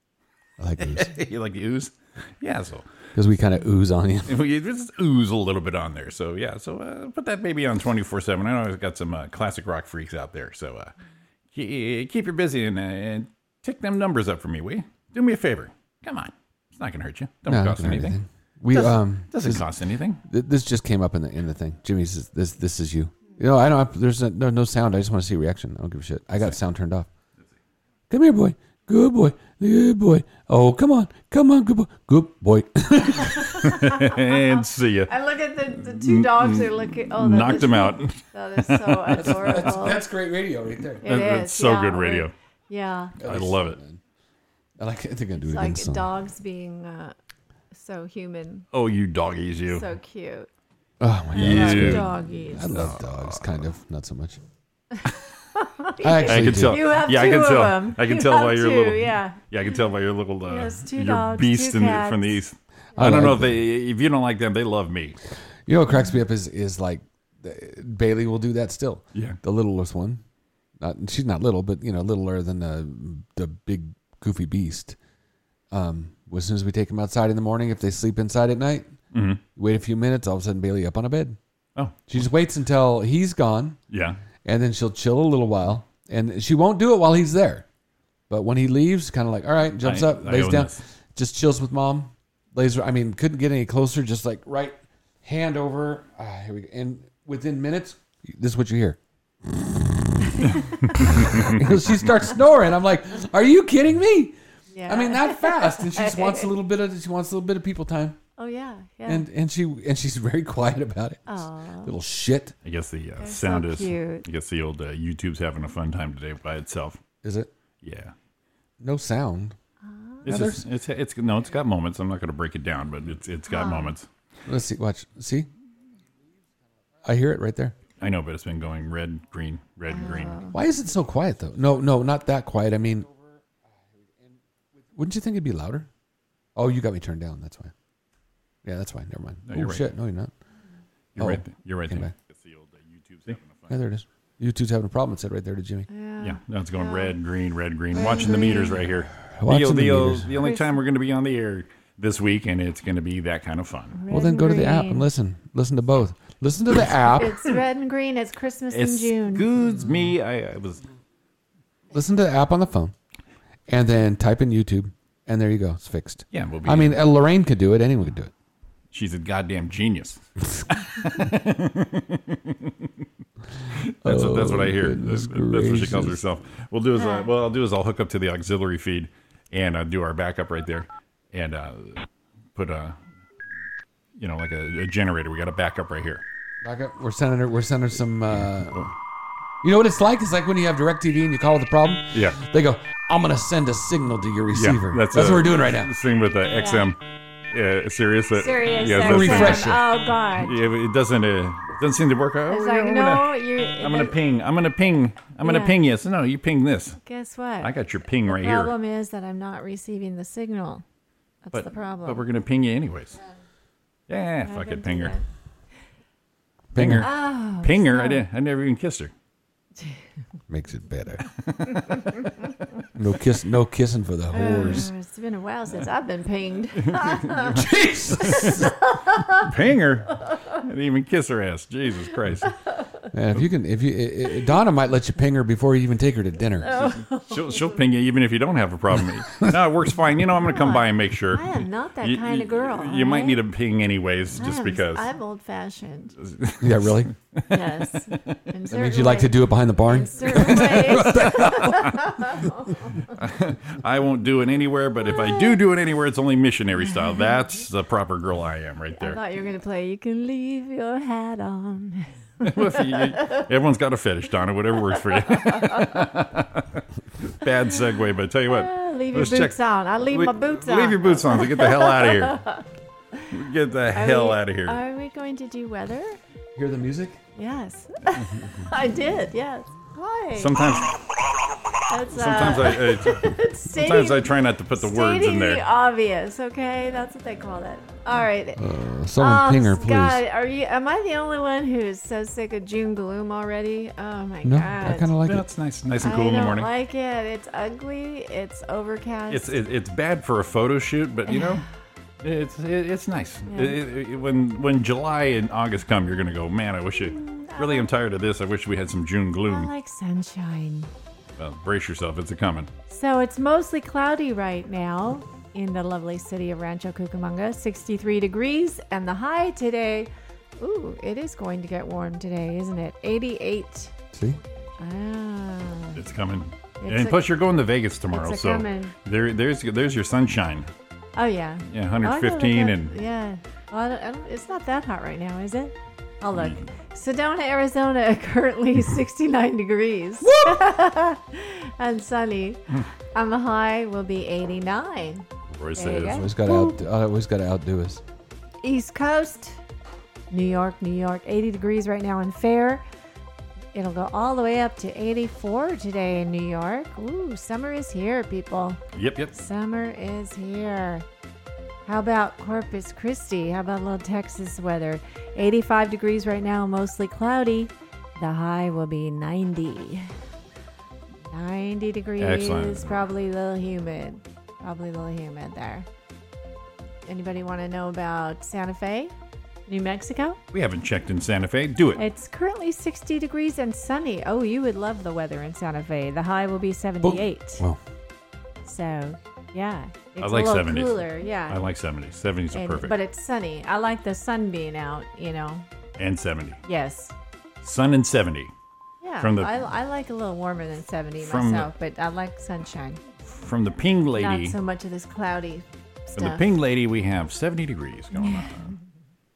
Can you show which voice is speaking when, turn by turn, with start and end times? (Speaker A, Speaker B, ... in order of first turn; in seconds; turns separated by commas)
Speaker A: 0.6-1.1, Speaker B: 0.8-2.9, Speaker A: 3.1-4.4, Speaker B: 4.3-10.9, Speaker B: 11.5-18.2, Speaker A: 17.5-19.7, Speaker B: 18.7-20.2, Speaker A: 20.2-27.1, Speaker A: 28.1-33.5, Speaker C: 33.2-40.0, Speaker B: 33.3-35.1, Speaker B: 35.8-39.5, Speaker A: 39.1-41.0, Speaker C: 41.0-43.1, Speaker B: 41.0-42.3, Speaker A: 43.2-44.0, Speaker B: 43.2-43.8, Speaker A: 44.8-46.1, Speaker C: 45.4-47.1, Speaker C: 47.7-48.7, Speaker B: 48.7-49.9, Speaker C: 49.7-50.5, Speaker A: 51.0-54.4, Speaker B: 51.3-52.1, Speaker C: 51.3-52.8, Speaker B: 52.7-53.6, Speaker C: 55.5-59.4, Speaker A: 56.0-56.9, Speaker B: 56.3-65.2, Speaker C: 60.5-62.4, Speaker A: 63.0-63.6, Speaker A: 65.7-70.2, Speaker A: 70.8-75.0, Speaker A: 75.7-78.9, Speaker B: 79.1-79.4, Speaker A: 79.5-81.4, Speaker A: 82.1-83.8, Speaker B: 83.9-84.2, Speaker A: 84.4-87.7, Speaker A: 88.3-99.0, Speaker B: 89.8-90.8, Speaker A: 99.6-100.4, Speaker B: 100.5-101.6, Speaker A: 101.0-104.4, Speaker C: 104.7-106.5, Speaker A: 104.9-108.2, Speaker C: 108.4-109.2, Speaker A: 109.1-112.5, Speaker C: 111.3-111.9, Speaker B: 112.7-117.0, Speaker C: 113.2-114.2, Speaker A: 117.2-117.5, Speaker B: 117.8-118.1, Speaker A: 118.8-119.6, Speaker C: 119.8-120.3, Speaker B: 120.2-124.1, Speaker A: 120.3-120.6, Speaker C: 123.5-124.0, Speaker A: 124.5-125.5, Speaker A: 127.0-127.8, Speaker B: 128.0-130.5, Speaker C: 129.9-130.6, Speaker A: 130.5-135.9, Speaker A: 136.6-137.7, Speaker A: 138.6-140.3, Speaker B: 139.5-139.9, Speaker B: 141.2-143.8, Speaker A: 141.2-142.1, Speaker A: 143.7-145.9, Speaker C: 145.9-147.2, Speaker B: 146.2-154.0, Speaker C: 147.9-148.9, Speaker A: 149.2-150.3, Speaker C: 150.4-150.8, Speaker C: 153.9-155.1, Speaker A: 154.1-157.4, Speaker C: 157.0-159.5, Speaker B: 158.7-160.8, Speaker A: 161.9-162.9, Speaker A: 163.7-168.3, Speaker B: 166.3-167.0, Speaker B: 168.9-172.9, Speaker B: 173.7-183.0, Speaker A: 174.0-176.2, Speaker C: 177.0-177.3, Speaker B: 184.2-186.2, Speaker A: 186.6-188.9, Speaker B: 188.3-188.9, Speaker A: 189.6-195.9, Speaker B: 192.1-192.4, Speaker B: 194.5-197.0, Speaker C: 196.6-196.9, Speaker B: 197.5-199.8, Speaker C: 198.3-200.6, Speaker A: 199.0-199.8, Speaker B: 200.4-207.0, Speaker C: 202.5-204.2, Speaker C: 205.4-205.8, Speaker C: 207.0-207.7, Speaker B: 207.6-208.7, Speaker C: 208.2-210.8, Speaker C: 211.5-212.2, Speaker B: 211.5-213.2, Speaker B: 214.1-215.2, Speaker C: 214.4-215.2, Speaker A: 216.7-217.1, Speaker B: 216.8-219.1, Speaker C: 216.9-218.2, Speaker A: 220.5-221.2, Speaker A: 222.9-224.9, Speaker C: 224.3-227.6, Speaker B: 226.8-228.6, Speaker A: 227.5-228.7, Speaker C: 228.2-229.5, Speaker B: 229.4-232.5, Speaker A: 233.1-236.9, Speaker C: 236.6-237.8, Speaker B: 237.1-245.1, Speaker C: 240.4-243.4, Speaker C: 244.4-246.2, Speaker B: 246.2-248.4, Speaker A: 246.6-247.1, Speaker C: 247.5-253.1, Speaker A: 248.7-252.0, Speaker B: 250.9-252.0, Speaker B: 253.1-259.2, Speaker C: 255.2-255.5, Speaker C: 256.9-257.3, Speaker C: 258.9-263.3, Speaker B: 262.4-272.4, Speaker C: 265.1-265.8, Speaker C: 268.5-272.6, Speaker B: 273.3-274.8, Speaker C: 273.9-276.2, Speaker A: 276.6-277.2, Speaker C: 277.4-280.8, Speaker B: 280.4-281.0, Speaker C: 281.9-288.6, Speaker B: 282.1-285.6, Speaker A: 288.6-290.2, Speaker C: 289.2-295.1, Speaker A: 294.4-295.4, Speaker B: 295.3-296.7, Speaker C: 296.0-299.6, Speaker B: 299.3-301.6, Speaker C: 301.3-301.6, Speaker B: 302.2-309.7, Speaker C: 303.5-303.8, Speaker C: 307.0-307.9, Speaker C: 309.5-310.9, Speaker B: 311.4-312.7, Speaker C: 312.9-323.9, Speaker C: 324.8-326.0, Speaker B: 325.9-330.7, Speaker C: 326.8-327.3, Speaker C: 328.1-328.9, Speaker C: 331.2-346.8, Speaker B: 331.7-332.9, Speaker B: 336.4-336.6, Speaker B: 345.5-346.2, Speaker A: 346.0-348.0, Speaker C: 348.6-349.6, Speaker C: 350.3-352.8, Speaker C: 353.7-358.8, Speaker B: 358.9-359.3, Speaker C: 359.3-361.1, Speaker C: 361.9-370.1, Speaker C: 371.3-375.9, Speaker B: 372.2-372.9, Speaker C: 377.1-379.1, Speaker C: 379.7-380.4, Speaker B: 380.5-382.0, Speaker C: 382.0-387.6, Speaker A: 387.0-387.8, Speaker C: 388.6-391.6, Speaker B: 390.2-392.9, Speaker C: 392.5-395.6, Speaker B: 396.0-396.6, Speaker C: 396.6-397.1, Speaker B: 397.6-398.5, Speaker C: 399.0-403.0, Speaker B: 399.2-399.5, Speaker B: 401.2-401.7, Speaker B: 403.2-404.6, Speaker C: 404.1-406.4, Speaker B: 406.1-408.7, Speaker C: 408.1-408.8